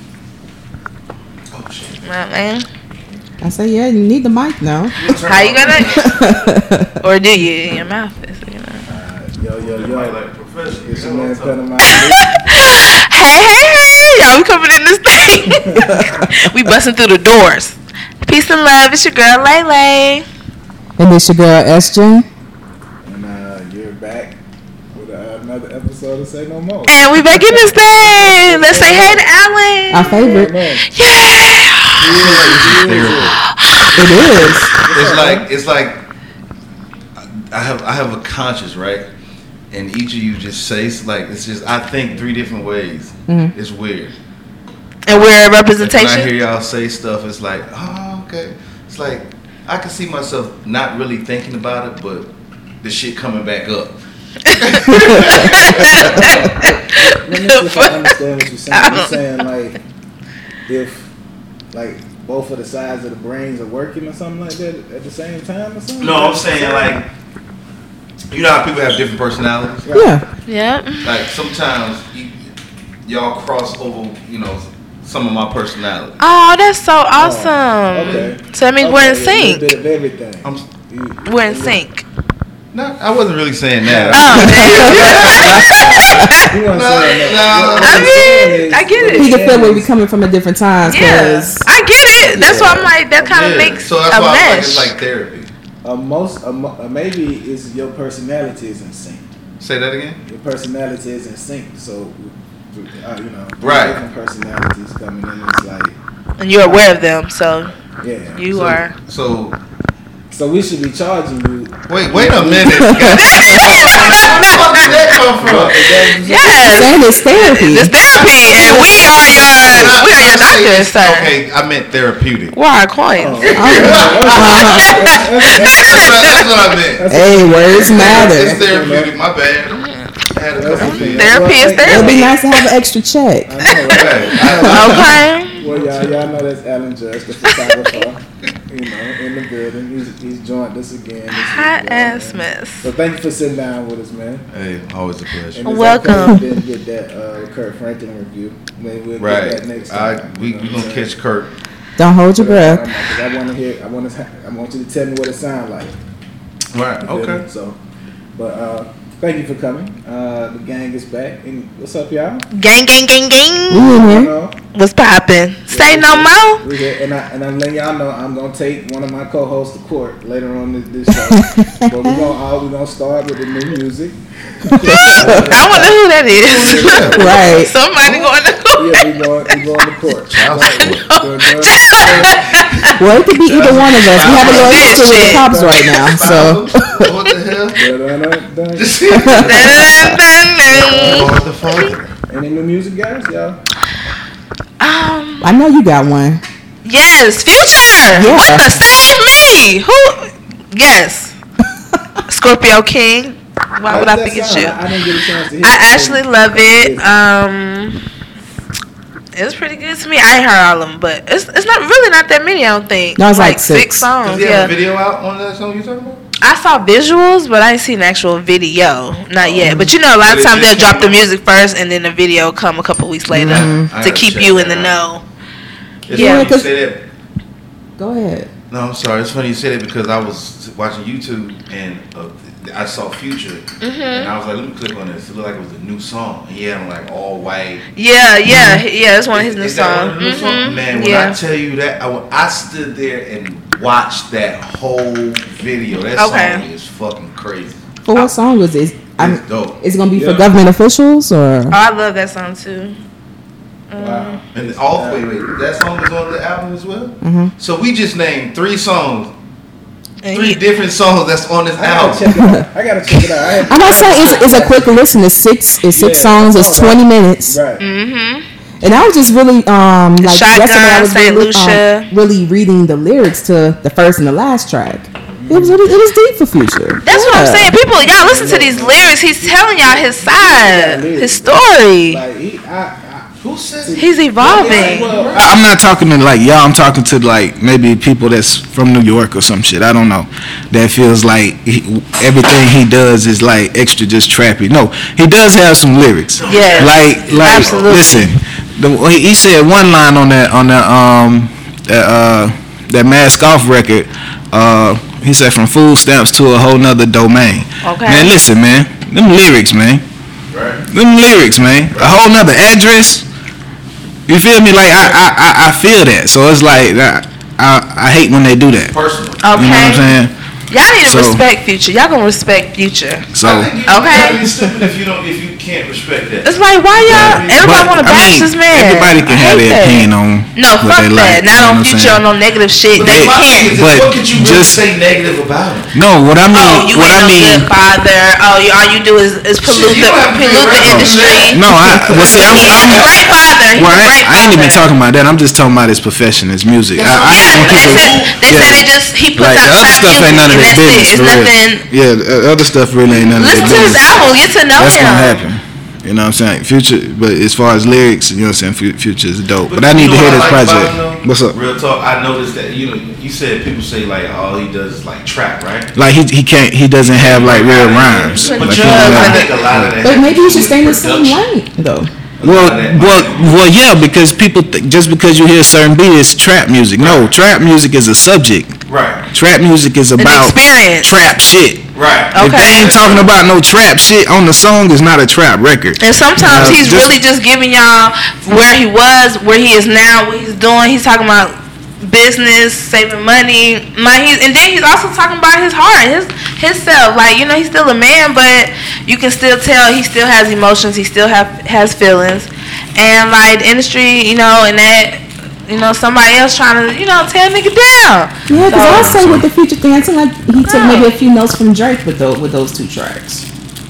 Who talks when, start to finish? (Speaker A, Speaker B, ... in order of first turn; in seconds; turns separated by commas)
Speaker A: 1.5-2.0, Speaker B: 2.0-2.6, Speaker C: 3.4-5.2, Speaker A: 5.0-6.3, Speaker B: 5.2-6.1, Speaker C: 5.9-7.0, Speaker B: 7.0-8.8, Speaker D: 8.9-10.2, Speaker A: 9.6-11.8, Speaker D: 10.8-12.3, Speaker B: 11.9-20.2, Speaker C: 15.7-16.5, Speaker C: 21.0-22.2, Speaker D: 23.0-24.4, Speaker D: 24.9-29.2, Speaker B: 26.9-30.1, Speaker C: 29.9-30.5, Speaker D: 29.9-30.8, Speaker B: 30.9-32.2, Speaker A: 32.0-33.4, Speaker D: 32.0-33.4, Speaker B: 33.5-34.0, Speaker D: 33.9-35.5, Speaker C: 34.0-34.7, Speaker A: 34.9-36.0, Speaker A: 37.2-39.0, Speaker A: 39.7-44.1, Speaker C: 43.3-43.5, Speaker B: 45.1-46.3, Speaker A: 45.8-52.3, Speaker A: 52.8-54.0, Speaker B: 54.5-58.1, Speaker A: 54.5-56.5, Speaker C: 54.9-55.5, Speaker D: 55.9-59.8, Speaker C: 56.2-56.5, Speaker B: 58.7-59.3, Speaker D: 60.6-61.0, Speaker D: 61.7-67.0, Speaker A: 66.0-67.0, Speaker A: 68.3-69.9, Speaker D: 69.8-70.2, Speaker C: 69.9-70.2, Speaker B: 70.5-71.1, Speaker A: 71.0-72.3, Speaker A: 73.0-76.2, Speaker B: 76.2-79.7, Speaker D: 77.2-81.8, Speaker A: 80.4-80.7, Speaker B: 81.2-82.0, Speaker A: 82.7-88.4, Speaker D: 83.8-89.9, Speaker B: 84.1-86.5, Speaker C: 84.6-85.4, Speaker B: 87.2-89.3, Speaker C: 89.2-91.6, Speaker B: 90.8-94.9, Speaker D: 92.2-92.9, Speaker A: 92.2-95.5, Speaker D: 95.8-99.2, Speaker A: 99.6-100.2, Speaker D: 100.2-106.0, Speaker A: 103.6-104.0, Speaker B: 106.4-107.7, Speaker D: 106.6-106.9, Speaker D: 108.0-108.5, Speaker B: 108.3-108.9, Speaker A: 108.5-109.6, Speaker D: 110.3-117.0, Speaker A: 111.9-116.2, Speaker C: 112.8-113.2, Speaker B: 113.1-114.9, Speaker B: 116.2-121.3, Speaker C: 116.7-117.9, Speaker A: 118.1-122.5, Speaker C: 118.5-119.7, Speaker B: 122.5-126.5, Speaker D: 123.1-126.2, Speaker A: 123.4-125.0, Speaker C: 123.5-125.0, Speaker A: 125.5-127.0, Speaker D: 127.0-129.2, Speaker C: 127.1-128.6, Speaker A: 127.7-131.7, Speaker B: 129.7-130.1, Speaker D: 130.5-132.3, Speaker B: 130.7-132.6, Speaker C: 131.8-133.6, Speaker D: 133.5-144.4, Speaker B: 133.6-135.6, Speaker A: 133.9-136.2, Speaker B: 137.4-138.0, Speaker B: 141.3-142.9, Speaker A: 144.5-145.7, Speaker D: 145.5-151.1, Speaker B: 145.6-146.5, Speaker A: 149.2-151.5, Speaker C: 152.0-152.9, Speaker D: 152.3-155.9, Speaker A: 156.7-157.4, Speaker D: 157.0-157.8, Speaker D: 158.3-162.4, Speaker B: 162.5-163.9, Speaker C: 163.7-164.3, Speaker D: 163.9-164.6, Speaker B: 164.7-166.6, Speaker D: 165.7-182.8, Speaker C: 171.1-172.3, Speaker C: 174.7-175.5, Speaker B: 175.0-179.6, Speaker A: 175.2-177.3, Speaker C: 177.1-177.7, Speaker A: 180.3-181.1, Speaker B: 180.8-182.9, Speaker A: 182.0-185.2, Speaker C: 182.9-187.1, Speaker D: 183.5-186.4, Speaker B: 184.2-185.5, Speaker A: 185.8-187.9, Speaker D: 187.8-189.4, Speaker A: 188.8-189.9, Speaker C: 189.1-190.1, Speaker B: 189.3-191.9, Speaker D: 190.7-191.4, Speaker A: 190.7-192.1, Speaker D: 192.3-193.6, Speaker B: 194.8-195.5, Speaker C: 195.4-196.4, Speaker B: 196.8-201.3, Speaker C: 198.1-198.8, Speaker B: 202.3-204.8, Speaker D: 203.9-207.1, Speaker B: 205.6-208.0, Speaker B: 209.3-214.7, Speaker C: 213.2-214.1, Speaker A: 214.2-216.2, Speaker B: 216.4-225.2, Speaker A: 219.4-221.2, Speaker C: 219.6-219.9, Speaker C: 223.3-223.9, Speaker A: 223.4-224.9, Speaker A: 226.1-227.0, Speaker B: 226.1-226.5, Speaker C: 226.1-226.7, Speaker C: 228.0-228.5, Speaker A: 228.7-237.8, Speaker B: 233.8-234.3, Speaker B: 237.9-241.4, Speaker C: 238.5-238.8, Speaker A: 239.3-247.8, Speaker B: 245.9-246.6, Speaker C: 248.0-251.8, Speaker A: 249.2-249.8, Speaker D: 250.1-250.5, Speaker B: 251.7-253.0, Speaker B: 253.9-254.4, Speaker D: 253.9-255.3, Speaker A: 254.5-259.3, Speaker C: 257.2-257.5, Speaker B: 260.2-260.6, Speaker A: 260.3-262.3, Speaker D: 261.8-265.0, Speaker C: 262.3-262.7, Speaker C: 263.7-267.6, Speaker D: 265.9-267.8, Speaker B: 267.8-268.4, Speaker C: 268.8-277.7, Speaker B: 270.2-272.1, Speaker D: 275.4-275.8, Speaker B: 277.0-282.2, Speaker D: 277.9-285.6, Speaker A: 283.4-285.4, Speaker B: 284.0-285.1, Speaker E: 285.3-310.0, Speaker A: 296.4-298.1, Speaker B: 296.5-298.3, Speaker B: 307.8-308.3, Speaker A: 310.5-310.8, Speaker E: 310.9-313.3, Speaker A: 311.9-312.2, Speaker E: 314.3-318.9, Speaker A: 318.8-319.8, Speaker B: 319.4-320.0, Speaker E: 319.5-320.3, Speaker B: 320.7-323.3, Speaker E: 321.0-321.4, Speaker E: 323.3-323.7, Speaker A: 323.4-328.0, Speaker B: 323.9-324.4, Speaker B: 326.4-333.7, Speaker E: 327.1-332.2, Speaker A: 332.9-335.9, Speaker E: 333.0-334.8, Speaker E: 335.9-337.7, Speaker B: 336.5-344.8, Speaker A: 339.6-343.1, Speaker E: 340.8-343.2, Speaker E: 343.7-361.6, Speaker A: 346.9-348.7, Speaker B: 347.2-351.8, Speaker A: 353.1-354.4, Speaker B: 353.2-355.4, Speaker A: 359.7-365.9, Speaker E: 365.9-370.0, Speaker A: 367.1-371.4, Speaker B: 368.3-369.6, Speaker C: 370.0-372.1, Speaker A: 372.4-373.5, Speaker E: 372.4-378.8, Speaker A: 377.0-377.3, Speaker A: 378.9-379.2, Speaker E: 379.3-387.1, Speaker B: 380.2-381.1, Speaker A: 381.9-383.3, Speaker B: 382.3-382.8, Speaker B: 386.0-409.1, Speaker E: 408.5-409.4, Speaker C: 408.5-413.4, Speaker B: 410.6-411.2